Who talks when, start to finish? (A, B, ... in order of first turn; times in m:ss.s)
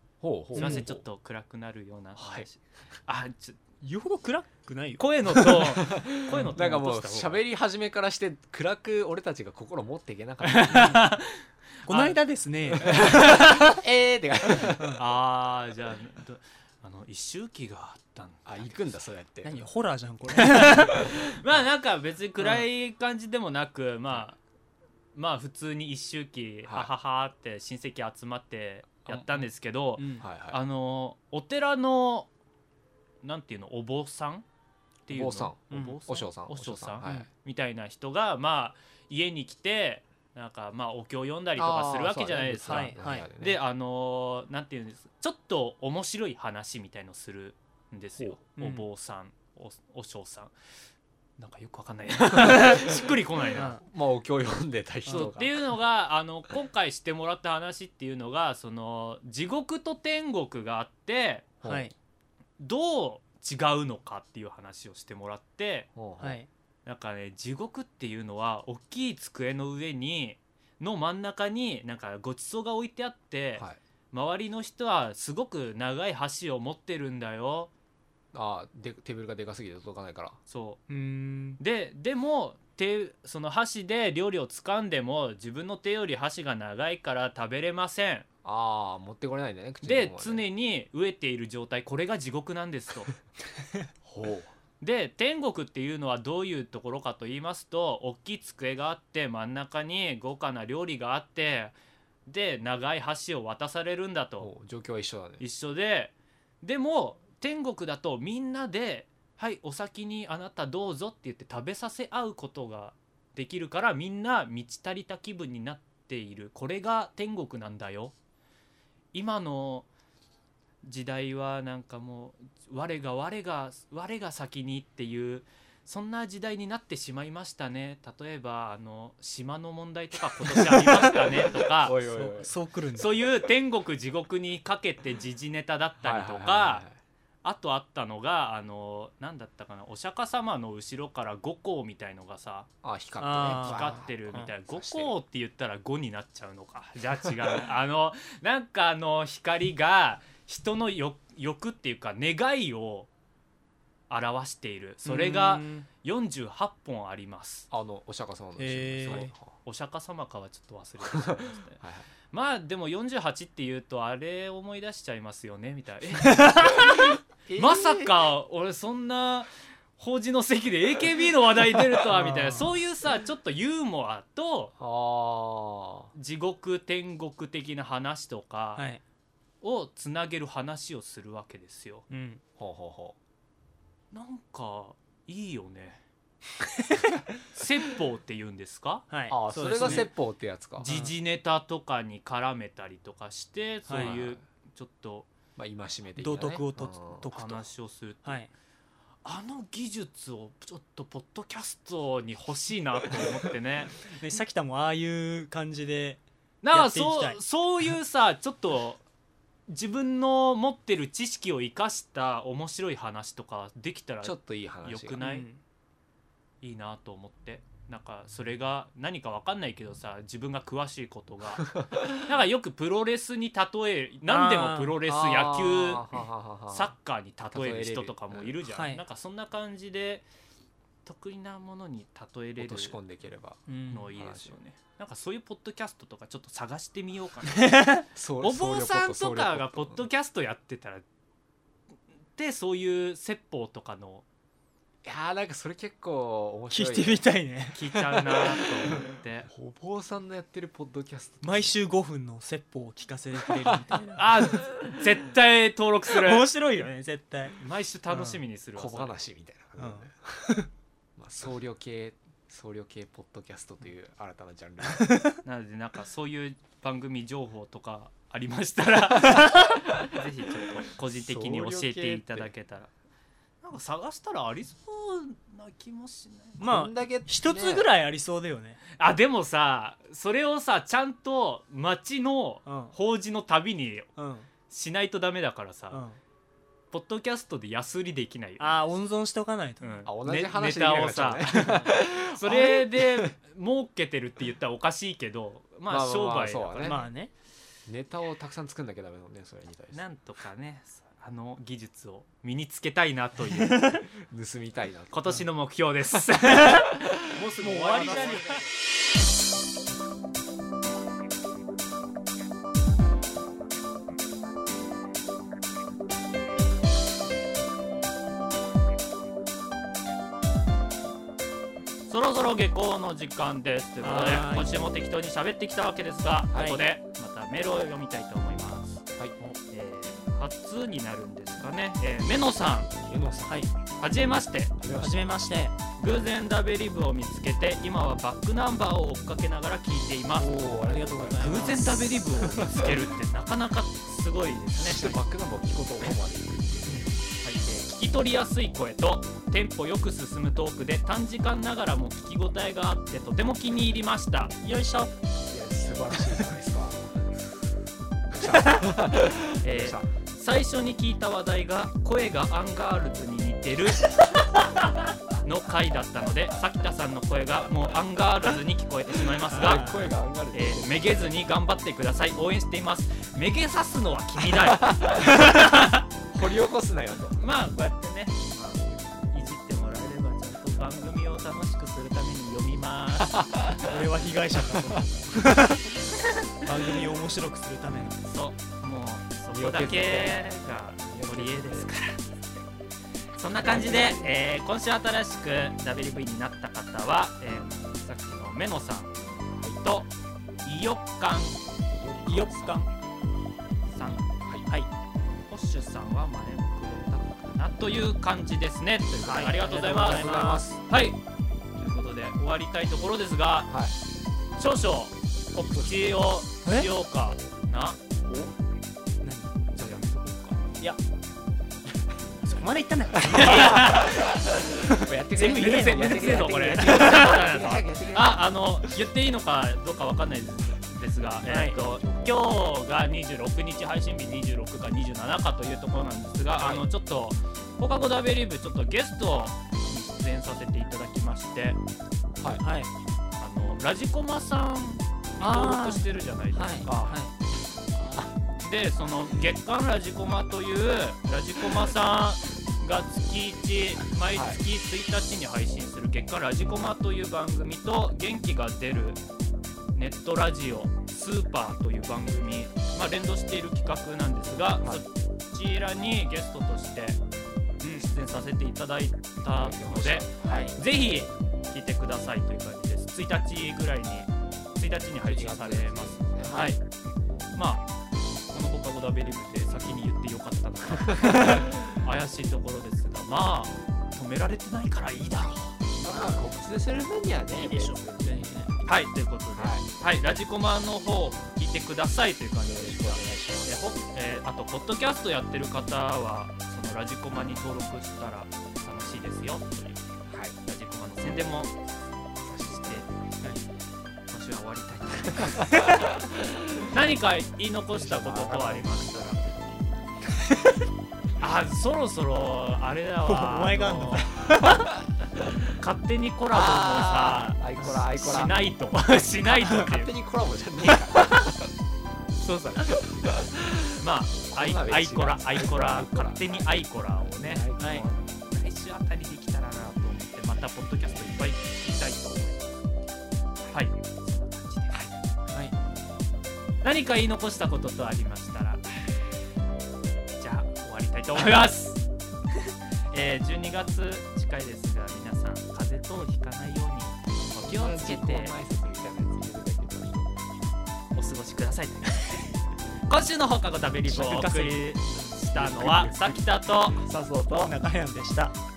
0:00.2-0:01.0 A
0:00.5-0:03.6 B
0:00.6-0:00.9 C
0:02.2-0:02.5 A
0:03.8-0:05.6 C
0:05.0-0:07.4 B
0:05.8-0:11.1 A
0:06.3-0:06.6 C
0:10.4-0:12.2 B
0:11.8-0:13.8 C
0:12.7-0:13.3 B
0:12.8-0:15.0 A
0:15.0-0:18.8 B
0:18.5-0:19.6 A
0:19.4-0:21.0 C
0:20.4-0:24.4 B
0:25.2-0:32.3 B
0:26.7-0:26.9 A
0:30.0-0:30.3 C
0:30.2-0:30.6 A
0:33.2-0:34.4 B
0:35.1-0:50.5 B
0:35.1-0:37.2 A
0:35.7-0:36.0 C
0:37.0-0:37.3 C
0:41.6-0:43.6 A
0:42.6-0:43.3 C
0:48.6-0:48.9 C
0:51.4-0:53.8 B
0:52.5-0:52.9 C
0:53.6-0:53.8 C
0:53.8-0:55.6 A
0:55.1-0:55.3 C
0:55.1-1:01.6 B
1:01.6-1:01.9 A
1:01.6-1:01.9 C
1:02.6-1:05.9 B
1:06.0-1:06.4 A
1:06.2-1:06.5 C
1:06.9-1:17.7 B
1:18.3-1:20.4 A
1:20.5-1:20.8 B
1:20.9-1:21.6 C
1:21.6-1:28.3 B
1:28.4-1:30.4 A
1:29.8-1:33.2 B
1:34.0-1:34.5 A
1:34.8-1:41.7 B
1:42.3-1:44.5 B
1:44.4-1:45.4 A
1:45.4-1:58.1 B
1:59.1-1:59.9 B
2:00.8-2:12.1 B
2:10.5-2:11.2 C
2:11.7-2:12.5 A
2:12.1-2:13.1 C
2:13.0-2:16.8 B
2:16.0-2:16.9 A
2:17.4-2:22.7 B
2:22.8-2:25.1 A
2:23.2-2:24.4 C
2:23.6-2:33.1 B
2:34.1-2:37.7 B
2:35.0-2:35.9 C
2:37.7-2:39.5 A
2:38.6-2:39.3 C
2:39.1-2:41.8 B
2:41.0-2:42.0 A
2:42.3-2:54.7 B
2:46.2-2:47.2 C
2:47.5-2:48.1 A
2:52.1-2:52.7 C
2:54.8-2:56.1 A
2:56.1-2:58.9 B
2:58.8-2:59.0 C
2:59.6-3:02.0 B
3:02.1-3:02.4 C
3:02.6-3:03.2 A
3:04.1-3:06.0 B
3:06.8-3:07.1 C
3:07.6-3:09.1 B
3:09.1-3:10.1 C
3:09.3-3:10.9 A
3:09.7-3:10.1 B
3:10.8-3:11.1 C
3:10.8-3:15.3 B
3:13.9-3:14.1 C
3:13.9-3:14.4 A
3:15.6-3:17.5 A
3:16.2-3:17.6 C
3:17.3-3:18.4 B
3:18.2-3:18.5 C
3:19.2-3:24.0 B
3:24.0-3:26.2 C
3:26.6-3:29.0 B
3:26.7-3:27.4 C
3:29.7-3:35.5 B
3:34.2-3:35.2 A
3:35.2-3:35.6 C
3:36.6-3:46.2 B
3:41.7-3:42.2 A
3:44.3-3:45.0 C
3:45.0-3:46.9 A
3:46.7-3:50.2 B
3:47.5-3:48.6 A
3:48.6-3:49.0 C
3:51.0-3:53.0 B
3:52.6-3:54.6 A
3:53.7-3:54.1 C
3:53.9-3:57.8 B
3:57.5-3:58.0 C
3:58.1-4:00.0 A
3:58.4-4:01.0 B
4:02.4-4:04.2 B
4:05.0-4:07.2 A
4:06.7-4:08.0 C
4:07.8-4:09.5 B
4:07.9-4:11.8 A
4:11.4-4:14.5 C
4:14.2-4:16.8 B
4:16.1-4:17.6 C
4:17.6-4:19.2 B
4:18.1-4:18.4 C
4:18.8-4:20.5 A
4:19.8-4:20.7 C
4:21.2-4:25.2 A
4:24.9-4:25.4 C
4:25.4-4:32.9 B
4:29.3-4:29.8 C
4:31.1-4:32.5 A
4:33.6-4:36.6 B
4:36.6-4:38.8 C
4:36.6-4:37.9 A
4:39.0-4:44.1 B
4:42.7-4:42.9 C
4:44.2-4:44.5 C
4:44.7-4:46.0 B
4:45.9-4:46.2 C
4:46.9-4:48.8 B
4:48.6-4:50.0 C
4:49.8-4:57.0 B
4:50.0-4:53.3 A
4:51.6-4:51.9 C
4:55.9-4:57.1 A
4:56.8-4:57.3 C
4:57.9-5:00.0 A
4:59.9-5:04.0 B
5:04.3-5:05.3 A
5:05.1-5:08.7 B
5:06.1-5:07.4 A
5:07.6-5:08.6 C
5:22.1-5:29.0 B
5:24.0-5:24.7 C
5:26.5-5:26.8 A
5:29.7-5:32.9 B
5:33.0-5:33.7 A
5:33.5-5:33.7 C
5:34.0-5:34.7 B
5:34.8-5:35.4 A
5:35.0-5:35.8 C
5:36.0-5:40.7 B
5:40.4-5:43.1 A
5:40.6-5:42.1 C
5:41.4-5:45.2 B
5:44.7-5:47.1 A
5:46.9-5:47.2 C
5:47.4-5:54.6 B
5:54.6-5:55.1 C
5:55.5-5:57.1 A
5:58.3-6:00.1 A
5:59.6-6:04.9 B
6:05.4-6:16.0 B
6:09.5-6:11.2 A
6:09.6-6:10.0 C
6:14.8-6:15.7 A
6:16.3-6:17.4 A
6:17.4-6:23.6 B
6:23.4-6:23.8 A
6:23.8-6:25.9 C
6:26.6-6:28.3 C
6:28.2-6:32.2 B
6:29.5-6:31.9 A
6:33.4-6:39.2 B
6:33.6-6:34.2 A
6:39.5-6:39.8 A
6:39.7-6:40.1 B
6:40.6-6:41.6 B
6:41.9-6:42.8 A
6:42.3-6:42.8 C
6:43.9-6:44.3 B
6:45.5-6:51.2 B
6:49.2-6:50.7 C
6:50.0-6:50.8 A
6:51.8-6:53.8 B
6:53.7-6:53.9 A
6:54.6-6:58.0 B
6:59.2-6:59.6 C
6:59.7-7:00.7 B
7:02.4-7:04.0 C
7:03.2-7:08.4 A
7:03.3-7:04.2 B
7:04.9-7:07.3 C
7:05.4-7:21.8 B
7:11.4-7:11.8 C
7:22.6-7:22.9 C
7:23.4-7:27.2 B
7:25.4-7:27.3 C
7:27.9-7:28.4 A
7:28.6-7:39.2 B
7:34.3-7:34.6 A
7:39.9-7:47.2 B
7:47.8-7:56.8 B
7:49.6-7:50.8 A
7:50.4-7:50.7 C
7:55.2-7:56.7 A
7:57.6-7:57.9 B
7:58.5-8:05.9 B
8:00.9-8:02.0 A
8:06.0-8:08.9 A
8:07.5-8:08.7 C
8:08.8-8:20.1 B
8:09.6-8:09.9 A
8:12.6-8:13.8 A
8:20.3-8:20.6 A
8:20.6-8:21.9 B
8:22.5-8:23.0 A
8:22.6-8:23.1 B
8:24.3-8:25.9 B
8:25.3-8:27.0 A
8:26.9-8:29.4 B
8:27.9-8:29.5 A
8:31.4-8:34.3 B
8:33.2-8:34.9 C
8:35.7-8:40.1 B
8:36.5-8:38.6 A
8:39.6-8:41.7 A
8:40.9-8:41.4 B
8:42.4-8:43.0 B
8:42.8-8:44.0 A
8:44.0-8:52.8 B
8:44.5-8:48.1 A
8:47.8-8:48.1 C
8:53.7-8:55.0 B
8:55.5-8:55.8 C
8:56.8-8:58.9 B
9:00.4-9:08.6 B
9:07.6-9:10.3 A
9:11.2-9:12.5 B
9:13.1-9:17.0 B
9:14.1-9:14.9 C
9:15.5-9:17.7 A
9:17.6-9:18.6 C